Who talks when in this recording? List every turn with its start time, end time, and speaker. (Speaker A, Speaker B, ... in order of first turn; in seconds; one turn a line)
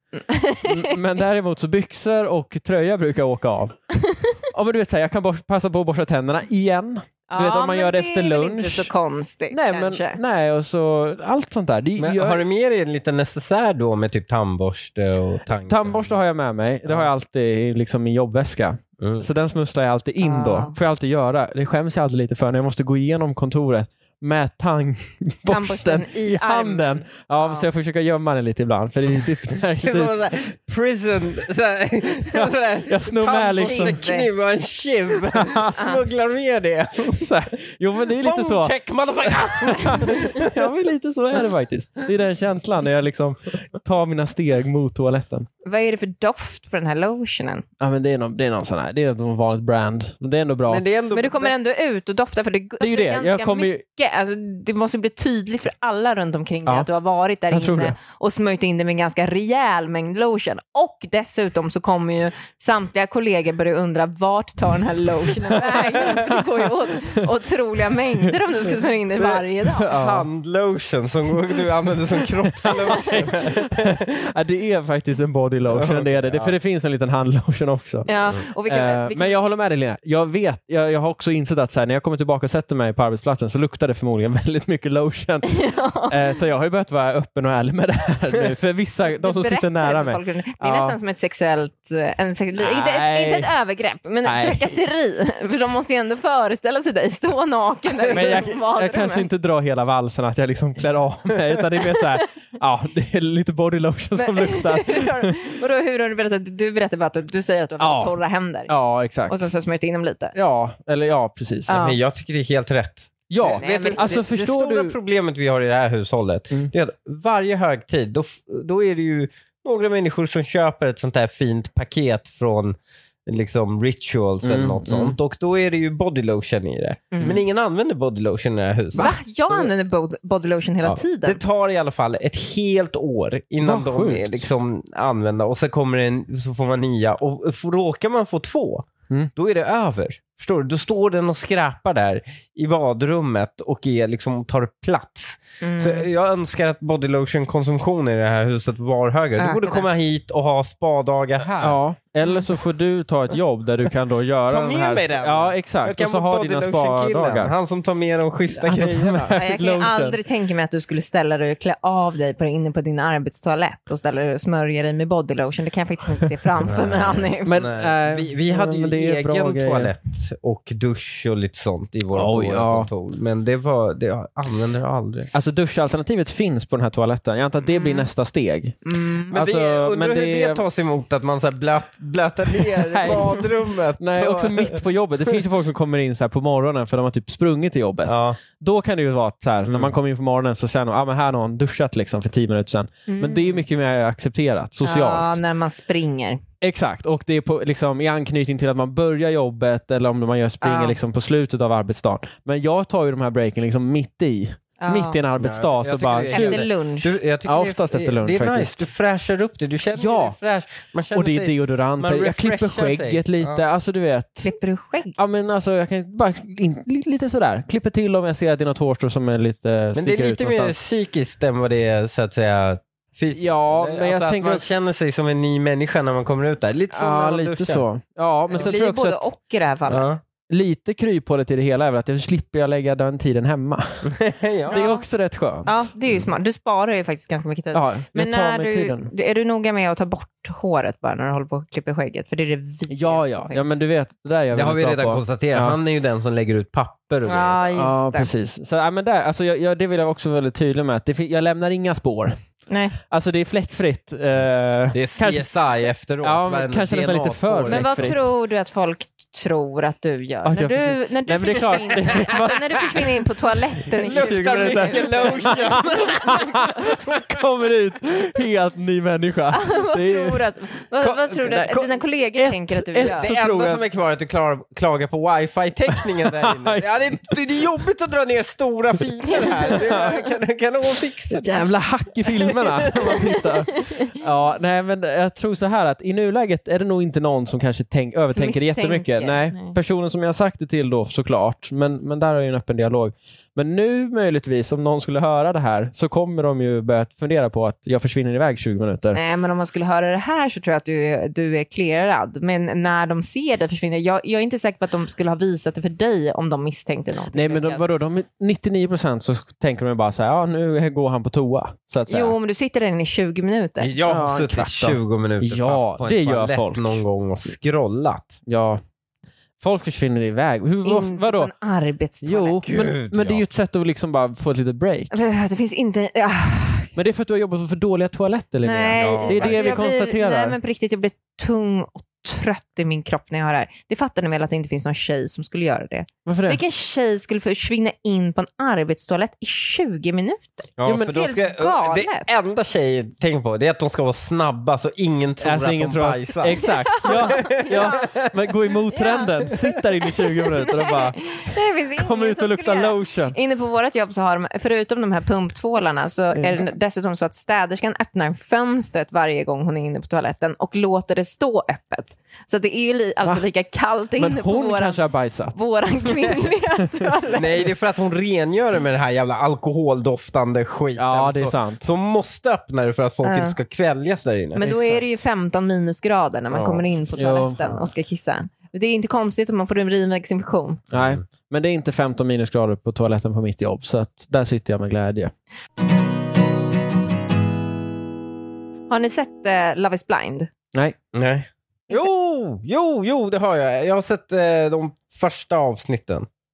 Speaker A: 0.3-1.0
Speaker B: 0.6-3.7
Speaker A: 4.0-4.4
Speaker B: 4.5-8.9
Speaker A: 7.3-10.2
Speaker B: 9.5-12.4
Speaker C: 12.0-16.2
Speaker B: 15.6-30.3
Speaker C: 19.0-19.2
Speaker A: 20.2-20.7
Speaker A: 25.5-27.7
Speaker C: 29.7-37.3
Speaker B: 32.3-34.0
Speaker A: 33.6-34.3
Speaker B: 35.3-35.8
Speaker B: 37.1-38.7
Speaker C: 38.2-40.6
Speaker B: 39.2-45.5
Speaker A: 45.6-47.6
Speaker B: 47.8-50.8
Speaker C: 50.7-51.5
Speaker A: 51.1-69.9
Speaker B: 52.8-53.8
Speaker B: 57.5-58.0
Speaker B: 65.5-67.3
Speaker B: 68.3-70.3
Speaker C: 69.9-74.0
Speaker B: 72.5-78.1
Speaker C: 75.7-76.5
Speaker A: 78.0-79.4
Speaker B: 78.7-91.0
Speaker A: 85.5-86.2
Speaker A: 89.0-99.3
Speaker B: 92.5-93.5
Speaker B: 94.2-94.7
Speaker B: 98.1-105.4
Speaker A: 104.2-108.7
Speaker B: 107.8-108.2
Speaker B: 108.7-109.5
Speaker A: 109.3-110.3
Speaker B: 110.3-111.8
Speaker A: 111.7-112.0
Speaker C: 111.7-129.7
Speaker B: 113.3-115.0
Speaker A: 113.4-114.2
Speaker B: 124.4-125.2
Speaker A: 127.1-127.4
Speaker A: 128.9-131.4
Speaker C: 130.8-151.8
Speaker B: 133.6-134.5
Speaker A: 145.6-146.1
Speaker A: 149.4-149.9
Speaker B: 151.6-157.5
Speaker C: 154.5-159.4
Speaker B: 158.5-160.2
Speaker A: 159.3-167.6
Speaker C: 166.6-175.3
Speaker B: 167.4-169.9
Speaker B: 172.1-172.9
Speaker B: 175.3-178.8
Speaker A: 177.6-178.1
Speaker A: 178.8-179.3
Speaker B: 179.3-180.6
Speaker C: 179.3-185.3
Speaker B: 182.8-195.4
Speaker C: 188.0-188.4
Speaker C: 189.7-189.9
Speaker A: 193.1-193.7
Speaker A: 194.8-196.4
Speaker B: 196.6-206.7
Speaker A: 200.6-201.0
Speaker A: 204.8-205.2
Speaker C: 205.4-213.6
Speaker A: 206.3-207.2
Speaker B: 207.4-208.9
Speaker B: 209.9-210.3
Speaker B: 211.1-214.5
Speaker A: 214.4-215.2
Speaker B: 215.2-220.8
Speaker C: 219.9-227.8
Speaker B: 223.3-224.7
Speaker B: 226.9-229.2
Speaker A: 228.5-230.1
Speaker C: 229.9-230.2
Speaker B: 230.5-234.1
Speaker C: 234.0-234.8
Speaker A: 234.7-235.1
Speaker B: 234.7-235.9
Speaker A: 235.6-243.8
Speaker B: 237.7-239.1
Speaker B: 242.9-245.8
Speaker C: 244.5-247.6
Speaker A: 247.2-248.3
Speaker B: 247.7-252.4
Speaker A: 252.7-253.0
Speaker B: 253.1-255.5
Speaker C: 254.9-258.2
Speaker B: 256.2-258.3
Speaker A: 257.7-266.6
Speaker B: 260.4-263.1
Speaker B: 264.0-270.4
Speaker C: 264.0-267.4
Speaker A: 269.5-273.3
Speaker C: 271.0-271.8
Speaker B: 271.4-273.8
Speaker C: 273.0-281.6
Speaker B: 275.9-277.4
Speaker B: 279.7-280.1
Speaker B: 281.3-299.2
Speaker C: 282.3-283.3
Speaker A: 283.8-284.1
Speaker A: 288.3-289.8
Speaker A: 299.1-307.9
Speaker B: 307.3-312.3
Speaker A: 312.1-314.9
Speaker C: 313.8-318.4
Speaker B: 314.2-317.0
Speaker B: 318.4-318.8
Speaker B: 319.6-321.5
Speaker A: 320.8-322.6
Speaker B: 322.2-325.1
Speaker C: 322.6-323.4
Speaker A: 325.1-326.9
Speaker B: 326.9-330.6
Speaker A: 328.6-342.3
Speaker C: 328.9-329.8
Speaker B: 336.2-336.6
Speaker C: 340.8-348.3
Speaker B: 340.9-341.2
Speaker B: 345.4-353.4
Speaker A: 346.6-348.1
Speaker A: 348.9-365.0
Speaker B: 356.3-356.6
Speaker B: 364.2-367.1
Speaker A: 365.5-367.7
Speaker C: 367.3-374.6
Speaker B: 370.9-371.8
Speaker A: 373.2-373.6
Speaker A: 374.6-380.8
Speaker B: 374.6-375.0
Speaker B: 376.5-377.8
Speaker B: 380.9-385.3
Speaker C: 380.9-381.2
Speaker A: 388.9-390.5
Speaker C: 391.1-396.3